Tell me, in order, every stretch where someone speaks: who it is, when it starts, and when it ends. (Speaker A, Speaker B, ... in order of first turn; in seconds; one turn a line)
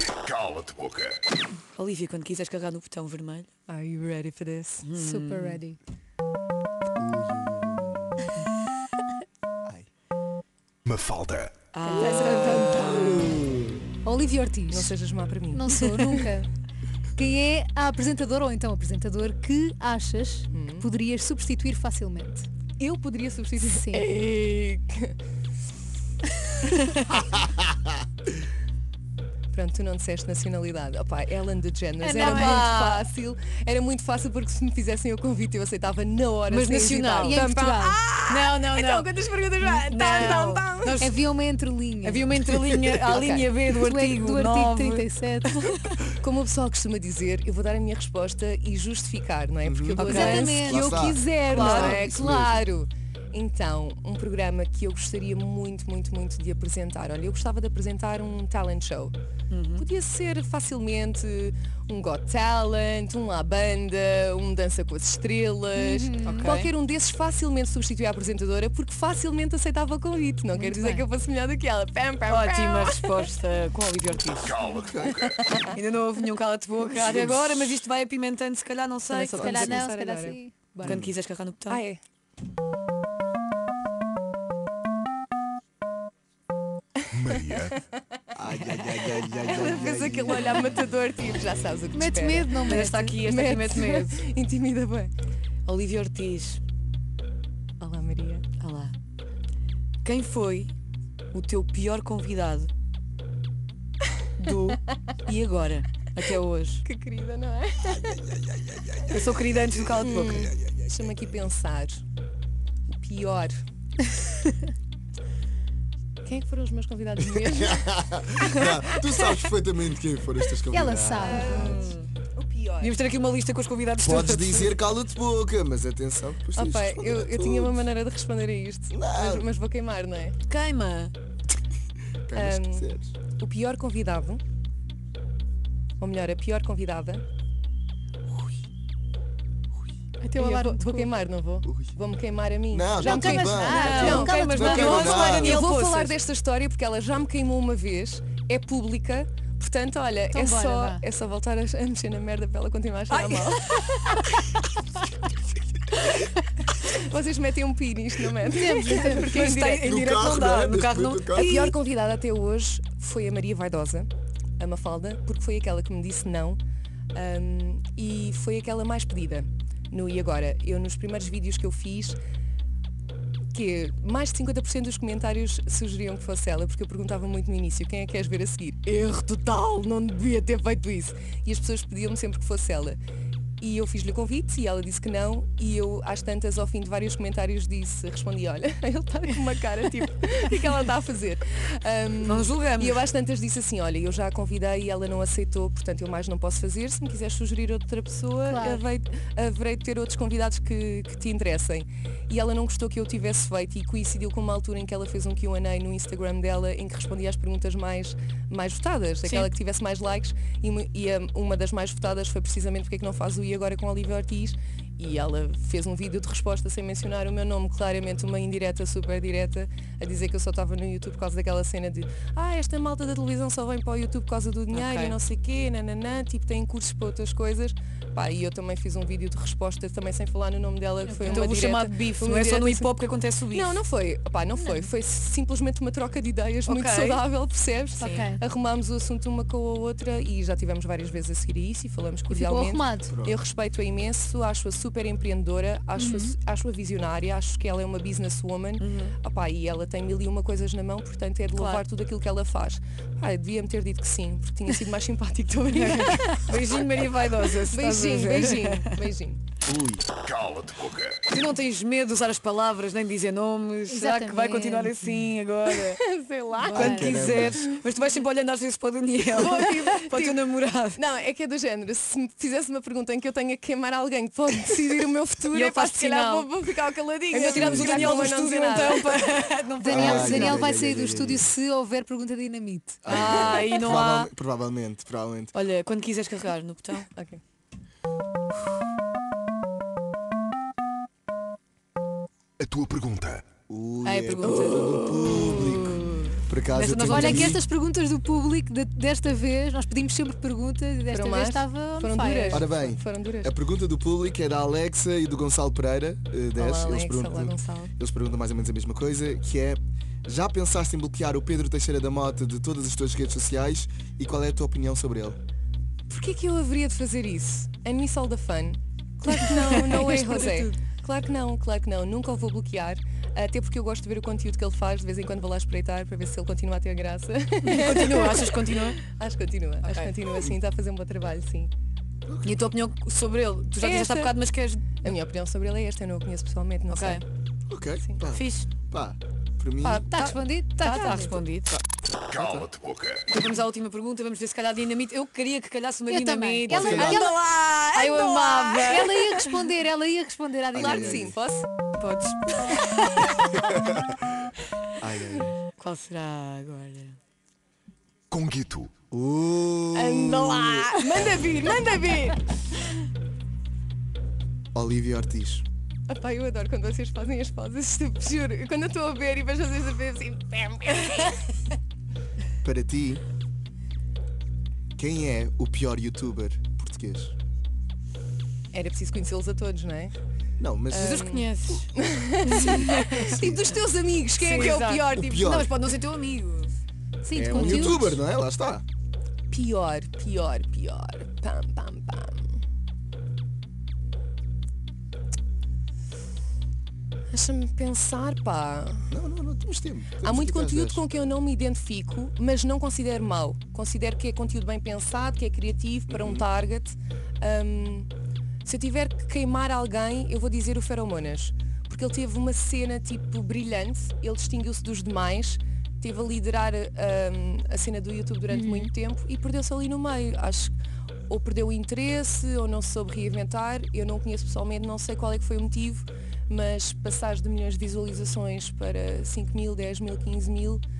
Speaker A: 0.3-1.1
Speaker B: 1.7-3.5
Speaker C: 3.7-4.9
Speaker B: 4.8-5.6
Speaker D: 5.0-5.8
Speaker E: 7.0-8.3
Speaker A: 10.8-11.6
Speaker B: 11.7-13.2
Speaker D: 11.8-13.3
Speaker C: 11.9-13.0
Speaker E: 12.6-13.8
Speaker D: 14.0-14.9
Speaker C: 14.7-16.3
Speaker D: 15.5-16.5
Speaker D: 17.1-22.5
Speaker C: 20.5-20.9
Speaker C: 22.8-25.1
Speaker D: 23.6-24.1
Speaker B: 26.6-27.2
Speaker C: 29.5-41.0
Speaker D: 32.0-32.8
Speaker B: 32.2-33.1
Speaker B: 36.5-37.5
Speaker D: 37.2-38.0
Speaker B: 38.3-39.1
Speaker B: 39.8-41.1
Speaker D: 41.0-42.5
Speaker B: 42.0-45.9
Speaker C: 42.9-43.5
Speaker D: 43.7-45.5
Speaker C: 46.1-59.1
Speaker E: 49.6-52.6
Speaker B: 50.0-52.0
Speaker D: 50.0-52.0
Speaker B: 59.5-59.9
Speaker C: 59.8-73.2
Speaker D: 65.7-66.6
Speaker B: 66.2-66.7
Speaker D: 70.5-71.0
Speaker B: 72.3-74.6
Speaker E: 74.7-75.3
Speaker C: 75.0-75.8
Speaker B: 75.7-79.9
Speaker E: 77.1-77.8
Speaker C: 79.1-80.4
Speaker D: 79.2-81.1
Speaker B: 80.8-81.8
Speaker E: 80.8-81.1
Speaker C: 81.7-82.0
Speaker A: 87.1-87.7
Speaker C: 87.3-87.8
Speaker E: 88.3-90.5
Speaker B: 88.6-90.3
Speaker C: 89.5-95.1
Speaker D: 91.9-93.2
Speaker B: 92.7-94.2
Speaker B: 95.7-96.6
Speaker C: 97.8-98.4
Speaker B: 98.6-99.0
Speaker B: 100.0-100.7
Speaker B: 101.3-102.7
Speaker B: 104.4-106.8
Speaker C: 106.8-108.6
Speaker E: 109.0-109.6
Speaker B: 109.1-110.5
Speaker C: 110.0-112.0
Speaker E: 110.3-110.8
Speaker C: 112.9-113.5
Speaker C: 116.2-118.7
Speaker E: 117.3-121.7
Speaker D: 120.7-121.9
Speaker B: 121.2-122.1
Speaker C: 121.2-121.8
Speaker C: 122.3-122.9
Speaker B: 122.8-124.7
Speaker E: 124.0-127.9
Speaker C: 126.5-130.3
Speaker E: 128.9-129.5
Speaker B: 130.4-131.1
Speaker E: 132.2-133.1
Speaker C: 132.3-134.4
Speaker C: 136.0-137.2
Speaker D: 140.2-141.1
Speaker C: 140.3-154.4
Speaker E: 141.6-141.9
Speaker E: 142.7-145.7
Speaker D: 142.9-145.6
Speaker B: 143.7-146.2
Speaker D: 150.3-151.0
Speaker C: 156.8-160.0
Speaker D: 158.4-159.3
Speaker B: 158.9-161.8
Speaker E: 159.8-161.5
Speaker C: 161.3-166.6
Speaker C: 167.1-172.2
Speaker C: 173.5-183.0
Speaker C: 183.6-233.0
Speaker B: 192.2-193.0
Speaker D: 198.4-198.8
Speaker B: 209.2-209.5
Speaker B: 224.7-225.2
Speaker D: 231.0-231.6
Speaker B: 231.2-233.8
Speaker C: 233.5-256.5
Speaker D: 234.6-234.8
Speaker B: 236.7-237.2
Speaker B: 238.0-238.2
Speaker D: 238.0-238.4
Speaker D: 242.3-243.2
Speaker E: 243.1-243.4
Speaker D: 246.0-246.3
Speaker B: 248.8-249.2
Speaker B: 251.5-251.8
Speaker B: 255.7-259.0
Speaker C: 257.7-259.4
Speaker E: 259.6-260.0
Speaker A: 260.2-261.2
Speaker B: 261.2-266.0
Speaker D: 263.9-265.3
Speaker C: 265.7-267.0
Speaker D: 266.6-267.3
Speaker E: 266.7-267.7
Speaker B: 266.7-271.0
Speaker C: 269.3-279.3
Speaker B: 275.5-276.5
Speaker B: 277.3-280.8
Speaker E: 277.5-278.2
Speaker D: 279.8-283.2
Speaker E: 279.9-281.5
Speaker E: 283.0-285.5
Speaker B: 283.1-284.3
Speaker B: 285.5-287.1
Speaker C: 287.1-287.4
Speaker A: 292.6-293.5
Speaker E: 293.7-297.6
Speaker B: 294.0-297.6
Speaker D: 297.1-302.7
Speaker C: 301.1-303.5
Speaker E: 302.5-315.4
Speaker C: 306.6-307.9
Speaker C: 316.1-331.7
Speaker B: 319.3-320.8
Speaker B: 327.6-329.0
Speaker B: 329.8-330.2
Speaker E: 332.3-332.6
Speaker B: 332.4-335.1
Speaker C: 333.8-334.3
Speaker C: 335.0-337.2
Speaker B: 336.9-337.2
Speaker E: 337.7-340.1
Speaker B: 338.3-338.7
Speaker D: 339.8-341.4
Speaker B: 340.8-341.8
Speaker A: 342.3-343.2
Speaker B: 343.2-349.5
Speaker D: 346.1-347.4
Speaker E: 346.7-347.2
Speaker C: 346.7-349.0
Speaker D: 348.2-351.3
Speaker E: 350.7-351.4
Speaker C: 350.7-351.7
Speaker B: 352.0-353.5
Speaker E: 353.7-354.2
Speaker E: 355.0-355.6
Speaker B: 355.8-357.1
Speaker A: 358.3-358.9
Speaker E: 359.1-360.9
Speaker C: 359.9-362.6
Speaker E: 364.7-365.6
Speaker C: 366.1-371.5
Speaker E: 372.6-373.2
Speaker E: 374.9-377.3
Speaker C: 378.7-380.1
Speaker E: 380.6-381.4
Speaker C: 380.9-385.3
Speaker B: 380.9-381.9
Speaker B: 382.4-383.4
Speaker E: 383.1-383.6
Speaker B: 384.4-386.8
Speaker E: 384.7-385.8
Speaker D: 387.2-388.2
Speaker E: 387.3-388.8
Speaker C: 387.5-388.0
Speaker C: 389.5-392.5
Speaker C: 397.3-399.1
Speaker E: 399.1-401.0
Speaker C: 400.2-408.1
Speaker E: 406.1-406.4
Speaker C: 408.6-420.7
Speaker D: 418.5-418.9
Speaker C: 421.3-430.8